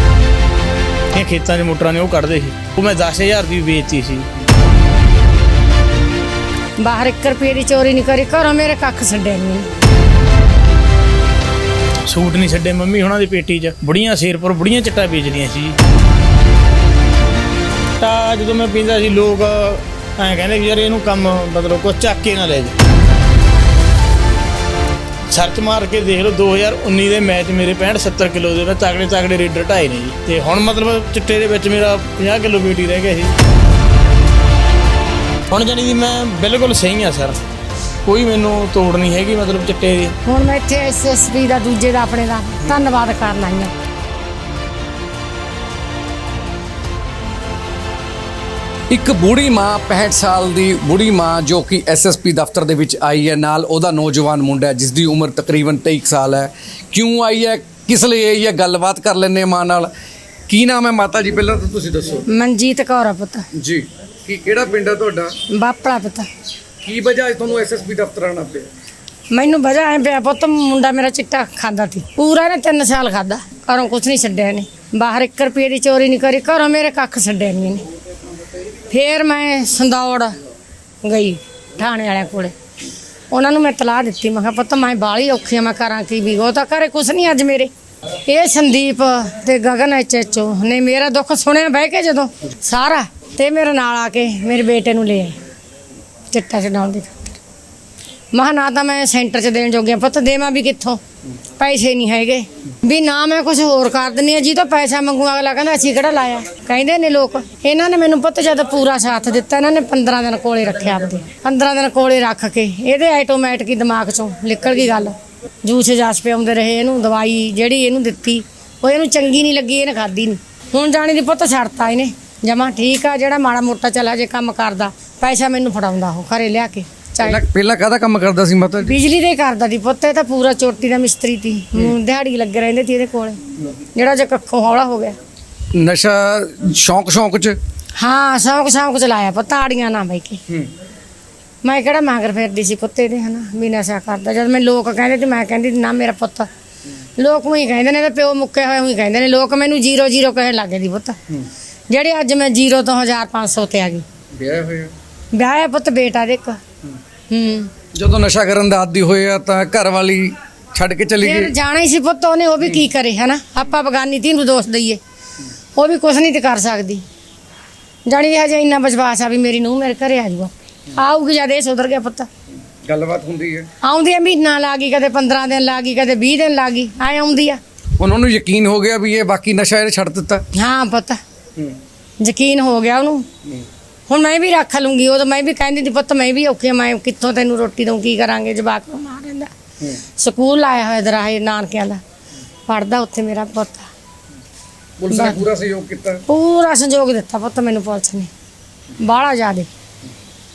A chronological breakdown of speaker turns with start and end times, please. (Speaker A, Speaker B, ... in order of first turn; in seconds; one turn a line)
Speaker A: 1.1-4.3
Speaker B: 6.8-9.7
Speaker A: 12.1-15.8
Speaker A: 18.0-22.7
Speaker A: 25.3-33.3
Speaker A: 35.5-37.4
Speaker A: 38.0-40.1
Speaker B: 40.2-43.7
Speaker C: 48.9-59.9
Speaker C: 60.5-62.3
Speaker B: 62.3-63.5
Speaker C: 63.5-65.3
Speaker B: 65.5-66.3
Speaker C: 66.8-68.7
Speaker B: 69.3-77.8
Speaker B: 78.9-80.3
Speaker B: 81.0-82.5
Speaker B: 83.3-87.7
Speaker B: 88.2-95.4
Speaker B: 96.3-97.4
Speaker B: 98.3-101.0
Speaker B: 101.6-127.4
Speaker C: 127.2-128.9
Speaker B: 128.8-133.4
Speaker B: 133.9-135.2
Speaker C: 135.7-137.6
Speaker B: 138.0-140.4
Speaker B: 141.6-146.5
Speaker B: 147.2-151.2
Speaker B: 151.9-154.0
Speaker C: 154.3-154.9
Speaker B: 155.3-156.6
Speaker B: 157.3-157.7
Speaker C: 157.9-161.5
Speaker B: 161.2-165.0
Speaker B: 165.8-167.0
Speaker B: 168.1-172.3
Speaker C: 172.8-173.7
Speaker B: 173.8-177.6
Speaker C: 178.0-180.4
Speaker B: 180.5-181.2
Speaker B: 182.2-183.3
Speaker B: 184.1-189.5
Speaker B: 190.2-192.0
Speaker B: 192.7-193.9
Speaker C: 195.0-196.2
Speaker B: 195.1-195.4
Speaker B: 196.3-198.3
Speaker B: 199.0-199.7